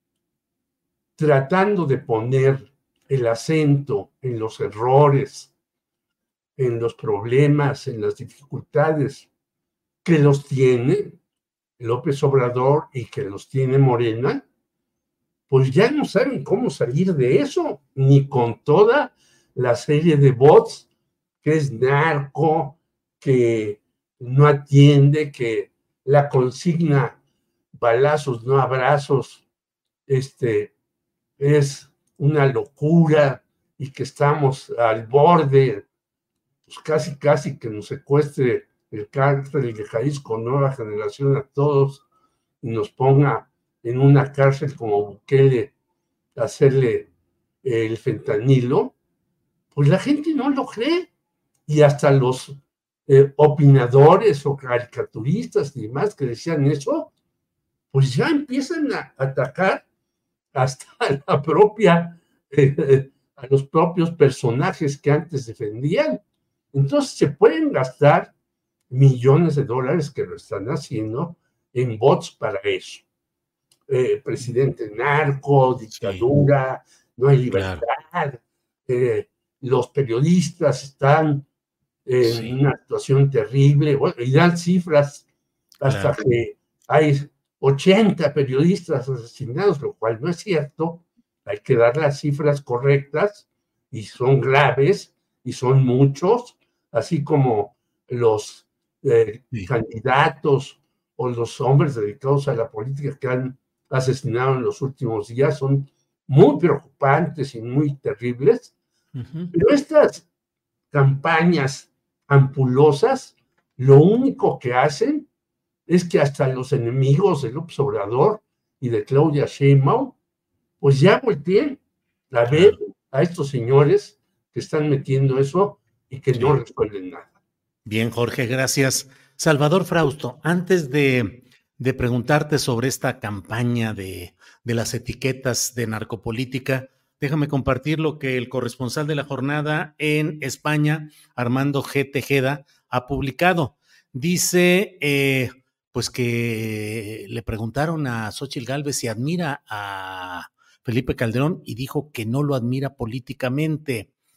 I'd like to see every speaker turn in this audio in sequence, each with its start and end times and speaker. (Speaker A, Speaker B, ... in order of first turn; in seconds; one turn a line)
Speaker A: 1.2-5.5
Speaker A: 6.6-9.3
Speaker A: 10.0-11.2
Speaker A: 11.8-14.4
Speaker A: 15.5-20.9
Speaker A: 21.4-27.2
Speaker A: 27.7-29.4
Speaker A: 30.1-30.7
Speaker A: 31.4-35.9
Speaker A: 36.6-42.0
Speaker A: 42.6-45.7
Speaker A: 46.4-47.1
Speaker A: 47.6-48.9
Speaker A: 49.7-51.1
Speaker A: 51.7-57.1
Speaker A: 57.9-59.8
Speaker A: 60.5-66.2
Speaker A: 66.7-68.3
Speaker A: 68.9-73.0
Speaker A: 73.9-81.5
Speaker B: 75.9-76.2
Speaker B: 77.5-77.8
Speaker A: 82.0-85.2
Speaker B: 82.2-82.5
Speaker A: 85.8-108.7
Speaker B: 85.8-86.2
Speaker B: 109.1-109.5
Speaker A: 109.5-110.2
Speaker A: 110.9-115.3
Speaker A: 115.9-120.2
Speaker A: 120.8-121.8
Speaker A: 122.3-127.3
Speaker B: 122.5-122.8
Speaker B: 127.8-154.1